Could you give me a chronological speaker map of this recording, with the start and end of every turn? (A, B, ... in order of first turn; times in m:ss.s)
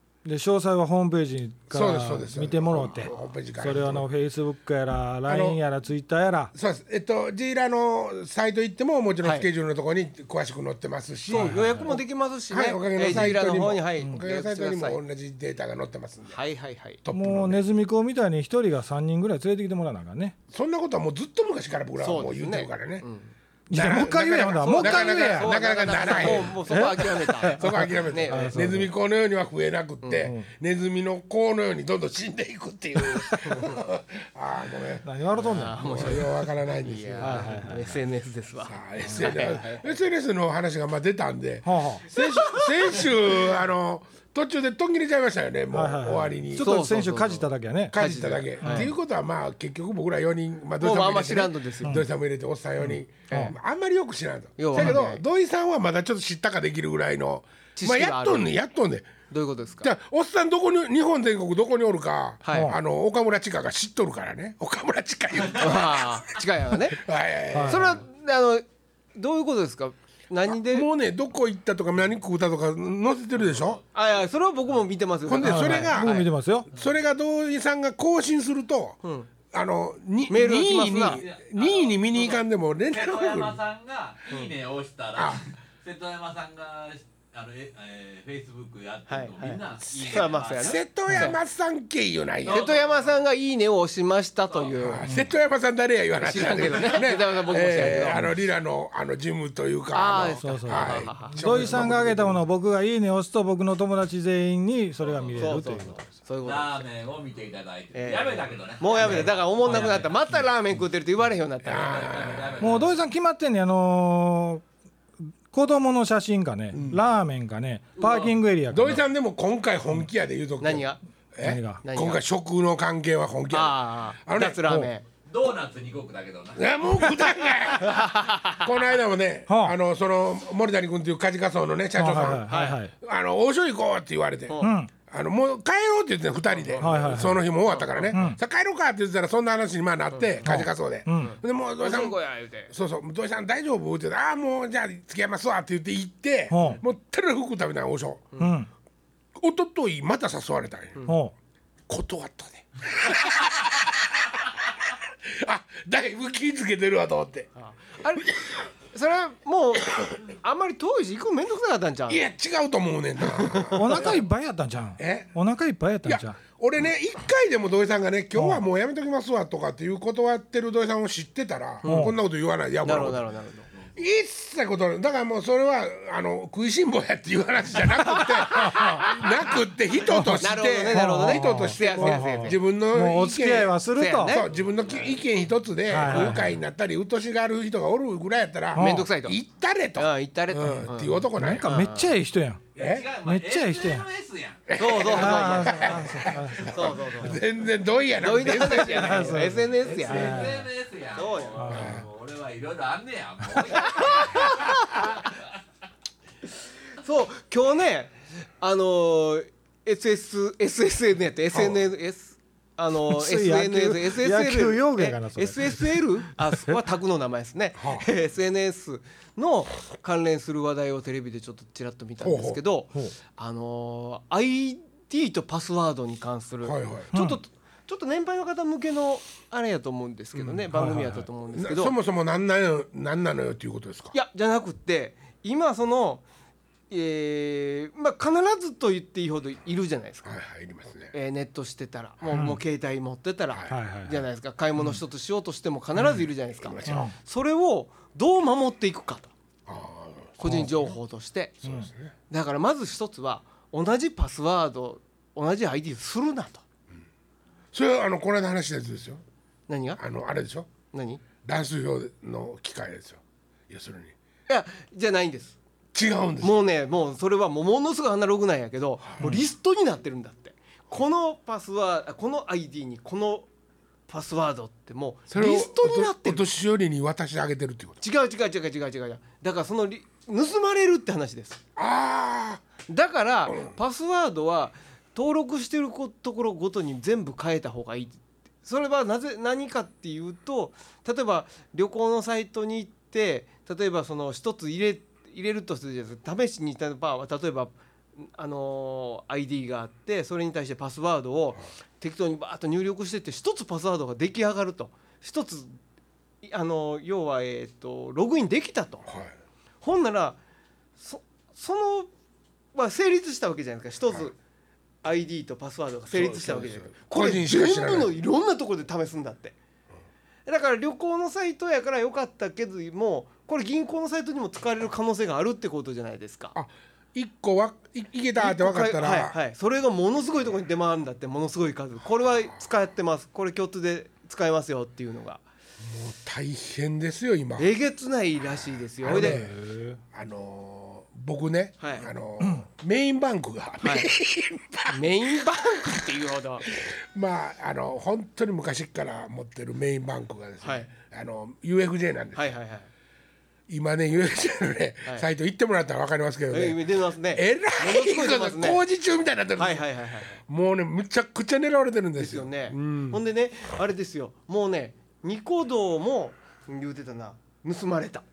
0:00.2-0:06.5 A
0:01.7-0:04.1 B
0:05.2-0:05.6 B
0:06.5-0:16.4 B
0:09.2-0:09.5 C
0:11.3-0:15.0 C
0:11.3-0:12.0 A
0:16.3-0:17.0 C
0:17.0-0:17.7 B
0:17.1-0:20.4 A
0:20.5-0:23.0 B
0:22.0-0:23.3 C
0:23.7-0:28.9 A
0:23.7-0:35.0 B
0:24.6-0:28.6 C
0:30.2-0:30.5 A
0:33.5-0:33.7 C
0:35.0-0:36.2 A
0:35.3-0:39.9 C
0:35.8-0:37.8 B
0:37.2-0:37.8 A
0:38.6-0:46.7 B
0:39.1-0:39.4 A
0:41.6-0:42.0 A
0:42.2-0:42.7 C
0:45.7-0:48.9 A
0:46.5-0:48.9 C
0:47.9-0:59.1 B
0:50.8-0:52.0 C
0:51.8-0:52.1 A
0:53.3-0:53.5 C
0:54.6-0:55.2 C
0:57.7-0:58.5 C
0:59.3-0:59.9 C
0:59.8-1:06.2 B
1:02.4-1:02.7 C
1:02.5-1:02.8 A
1:05.5-1:07.0 C
1:06.8-1:08.0 B
1:07.5-1:07.8 A
1:07.6-1:08.6 C
1:09.2-1:10.9 C
1:10.5-1:13.8 B
1:13.4-1:14.0 D
1:13.9-1:16.3 C
1:15.2-1:19.0 B
1:15.4-1:16.7 A
1:19.0-1:19.3 C
1:19.5-1:23.6 B
1:20.3-1:21.2 C
1:21.2-1:30.8 D
1:25.2-1:25.4 B
1:29.1-1:31.4 C
1:30.0-1:32.6 B
1:31.1-1:31.3 A
1:32.4-1:33.2 D
1:32.4-1:35.0 C
1:34.8-1:42.4 B
1:35.0-1:35.3 A
1:36.2-1:38.3 C
1:39.9-1:41.8 C
1:40.4-1:46.2 A
1:45.0-1:45.6 D
1:45.4-1:46.8 C
1:46.4-1:50.4 D
1:47.9-1:52.4 C
1:49.0-1:49.3 B
1:51.6-1:52.8 B
1:51.8-1:53.0 D
1:52.6-1:54.6 A
1:55.2-1:59.0 A
1:56.7-1:57.0 B
1:58.0-1:58.4 D
1:58.7-2:04.7 B
2:00.6-2:01.0 C
2:01.4-2:01.8 A
2:01.8-2:02.2 C
2:03.5-2:05.0 C
2:04.6-2:04.9 A
2:05.2-2:07.2 D
2:06.6-2:22.2 B
2:07.8-2:08.6 C
2:09.5-2:09.8 A
2:12.0-2:12.9 A
2:12.1-2:12.8 C
2:14.5-2:14.7 C
2:14.6-2:14.9 A
2:16.5-2:18.2 C
2:16.8-2:17.5 A
2:18.1-2:18.4 A
2:20.2-2:20.6 C
2:20.4-2:21.3 A
2:21.2-2:22.7 C
2:22.7-2:28.3 B
2:26.5-2:26.8 A
2:28.4-2:28.7 A
2:29.4-2:31.0 B
2:31.0-2:31.3 A
2:31.9-2:37.5 B
2:37.6-2:38.3 C
2:38.2-2:38.7 B
2:38.9-2:42.2 C
2:42.1-2:44.2 B
2:43.4-2:44.2 C
2:43.7-2:46.4 A
2:45.0-2:45.3 B
2:46.0-2:53.2 B
2:48.4-2:48.6 A
2:51.8-2:52.1 C
2:51.8-2:52.1 A
2:52.8-2:53.7 C
2:53.9-3:11.7 B
2:58.1-2:59.2 C
3:00.1-3:04.4 A
3:00.2-3:02.6 C
3:03.9-3:04.5 C
3:05.9-3:06.5 A
3:06.1-3:06.4 C
3:08.7-3:09.1 A
3:08.7-3:09.4 C
3:10.0-3:12.1 C
3:11.3-3:12.6 A
3:12.7-3:14.7 D
3:12.8-3:13.1 B
3:13.2-3:14.0 A
3:14.7-3:19.6 B
3:14.8-3:17.4 C
3:15.1-3:17.3 A
3:18.2-3:20.6 C
3:18.5-3:20.7 A
3:20.0-3:25.4 D
3:21.1-3:21.8 C
3:21.6-3:22.0 A
3:21.7-3:22.0 B
3:23.8-3:25.0 C
3:27.0-3:51.9 C
3:31.5-3:31.8 B
3:33.1-3:36.0 A
3:37.8-3:38.1 B
3:42.2-3:42.6 B
3:46.6-3:47.1 B
3:47.1-3:47.4 A
3:50.3-3:50.6 B
3:50.7-3:51.3 A
3:51.5-3:54.1 B
3:54.1-3:56.2 C
3:56.9-4:00.4 C
4:00.2-4:01.1 B
4:01.1-4:09.3 C
4:02.3-4:02.6 A
4:03.7-4:04.2 A
4:06.6-4:07.1 B
4:06.8-4:07.1 A
4:09.6-4:10.9 B
4:10.4-4:11.6 C
4:10.4-4:10.7 A
4:11.6-4:12.1 B
4:12.3-4:16.6 C
4:17.7-4:19.2 B
4:19.7-4:20.0 C
4:20.0-4:20.7 B
4:20.9-4:21.2 C
4:21.4-4:24.1 B
4:24.5-4:25.6 C
4:25.9-4:26.6 B
4:26.4-4:33.5 C
4:29.0-4:29.3 B
4:34.1-4:36.4 C
4:35.3-4:38.0 B
4:38.0-4:41.6 C
4:41.8-4:42.6 B
4:42.9-5:05.8 C
5:06.4-5:09.1 C
5:09.0-5:09.3 B
5:09.8-5:10.4 C
5:11.0-5:12.1 C
5:12.7-5:14.3 C
5:15.0-5:19.6 C
5:16.1-5:18.2 B
5:20.4-5:26.5 C
5:26.5-5:29.4 B
5:28.4-5:35.4 C
5:35.8-5:37.7 B
5:37.6-5:39.4 C
5:39.0-5:39.6 B
5:39.1-5:40.0 A
5:40.1-5:52.5 B
5:41.8-5:42.1 C
5:43.8-5:44.1 C
5:44.9-5:46.6 C
5:50.6-5:50.9 C
5:52.3-5:52.9 C
5:53.7-6:03.2 B
5:56.5-5:58.8 C
5:59.6-6:00.4 C
6:02.2-6:08.2 C